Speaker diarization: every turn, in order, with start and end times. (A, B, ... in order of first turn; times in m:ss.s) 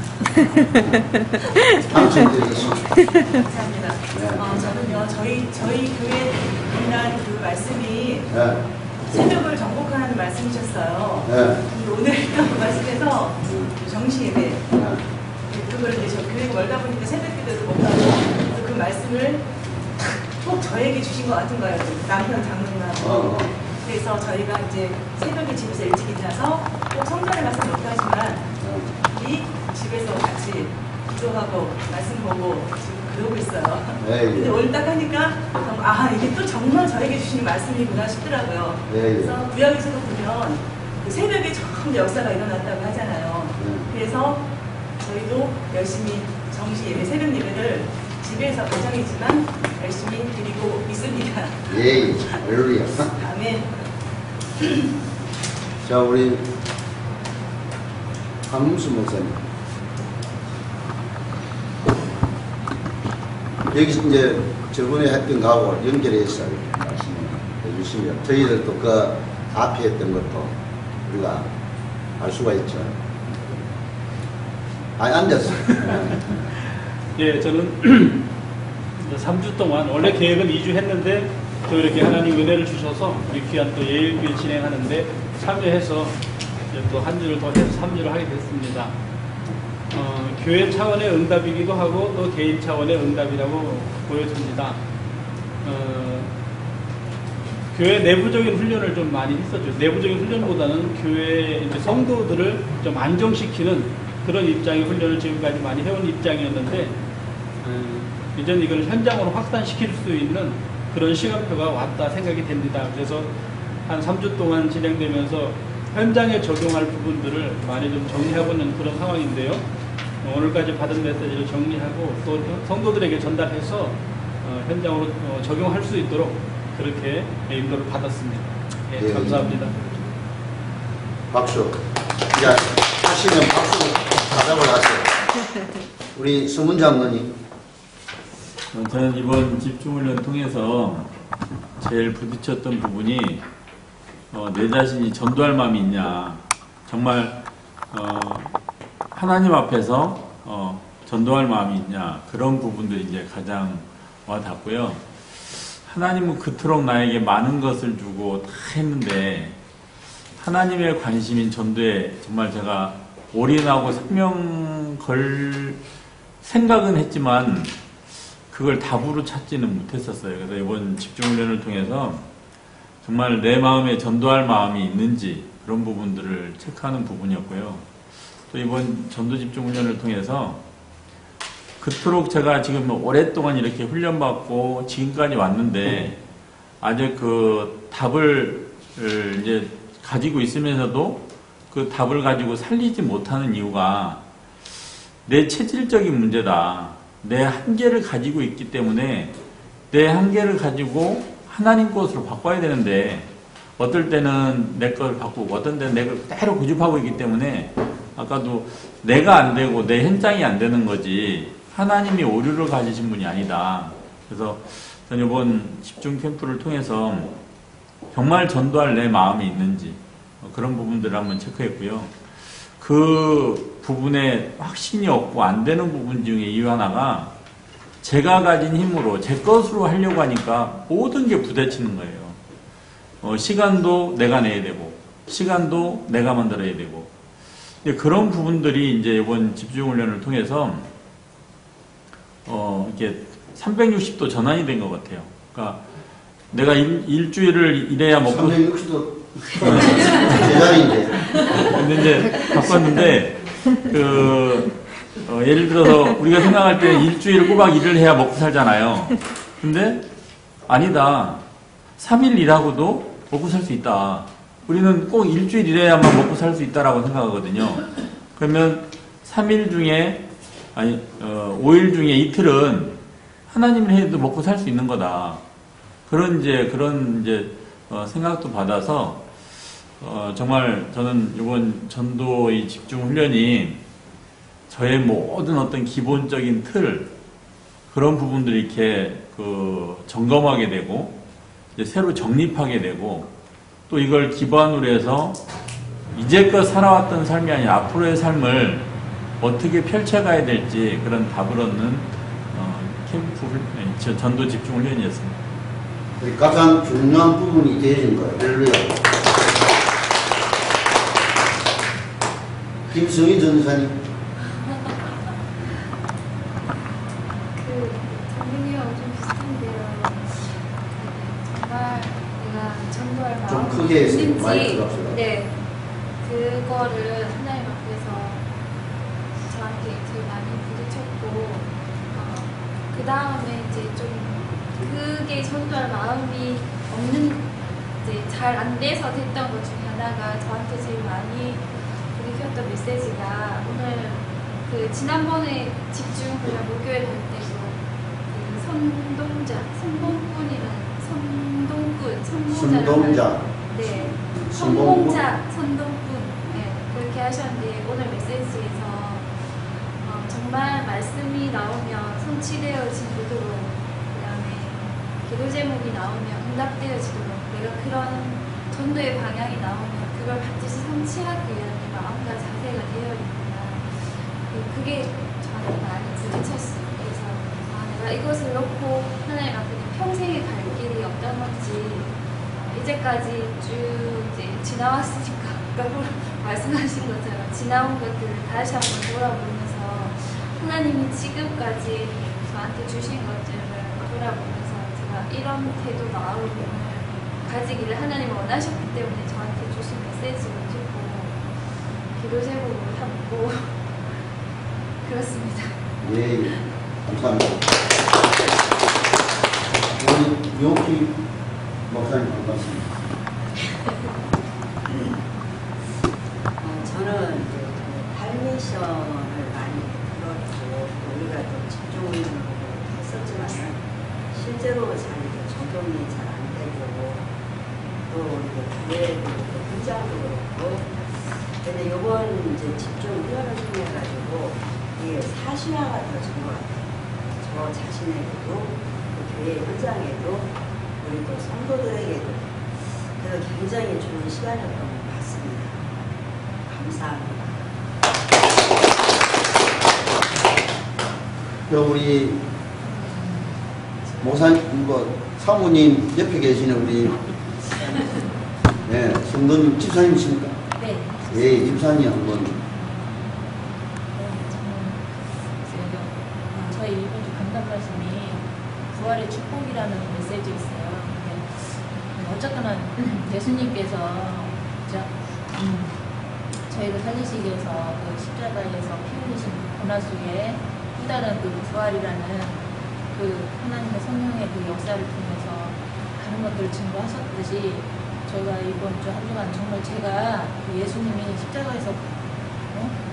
0:00.8-0:01.0 A
0:01.9-0:02.9 A
0:03.1-0:08.3 B
0:04.1-0:04.6 A
0:08.3-0:08.7 A
0:09.1-0:14.7 B
0:11.2-0:11.6 A
0:13.4-0:13.8 A
0:14.7-0:15.0 A
0:15.5-0:19.5 B
0:19.6-0:19.9 A
0:20.4-0:44.4 B
0:23.0-0:23.6 A
0:28.6-0:29.0 A
0:34.0-0:34.6 A
0:38.9-0:39.4 A
0:43.6-0:43.9 A
0:45.0-0:52.3 B
0:51.7-0:53.1 A
0:53.1-0:53.9 B
0:55.8-0:56.5 A
0:58.5-0:59.5 A
1:03.7-1:11.5 A
1:12.2-1:13.0 A
1:15.0-1:16.4 A
1:17.2-1:18.3 C
1:19.0-1:26.2 C
1:26.7-1:29.0 C
1:29.9-1:34.8 C
1:35.6-1:36.3 C
1:37.7-1:47.0 C
1:47.6-1:53.3 C
1:53.8-1:59.6 C
2:00.2-2:09.9 C
2:09.0-2:09.7 A
2:11.3-2:15.2 A
2:16.1-2:17.4 A
2:18.7-2:21.1 D
2:21.8-2:23.4 D
2:24.3-2:27.4 D
2:27.9-2:28.6 D
2:29.1-2:39.6 D
2:40.4-2:45.8 D
2:46.4-2:47.7 D
2:48.5-2:52.2 D
2:53.0-2:57.9 D
2:58.5-3:00.6 D
3:01.8-3:06.2 D
3:06.8-3:14.2 D
3:15.2-3:19.3 D
3:19.9-3:37.4 D
3:38.1-3:47.3 D
3:48.0-3:52.4 D
3:53.2-3:57.1 D
3:57.8-4:00.9 D
4:02.4-4:05.8 D
4:06.5-4:08.6 D
4:08.3-4:11.8 A
4:09.6-4:10.4 D
4:11.5-4:20.0 D
4:20.6-4:21.4 D
4:22.0-4:35.4 D
4:36.1-4:43.8 D
4:44.7-4:47.1 D
4:47.9-4:51.2 D
4:51.8-4:53.3 D
4:53.9-4:55.4 D
4:56.1-4:58.9 D
4:59.4-5:05.4 D
5:06.2-5:09.1 A
5:12.9-5:14.0 A
5:17.5-5:25.5 E
5:23.5-5:25.2 A
5:26.2-5:28.5 E
5:29.4-6:41.5 E
5:52.5-5:55.3 A
6:42.1-6:43.8 E
6:45.0-6:45.8 E
6:46.0-6:47.7 A
6:50.0-6:51.2 A
6:51.9-6:52.9 A
6:56.6-7:07.3 F
7:08.1-7:25.9 F
7:26.7-7:27.8 F
7:31.7-7:32.4 A
7:32.8-7:33.6 G
7:34.2-7:37.2 A
7:38.8-7:40.6 A
7:40.8-7:42.2 G
7:41.3-7:42.6 A
7:44.1-7:56.0 G
7:56.7-8:12.1 G
8:12.7-8:13.0 G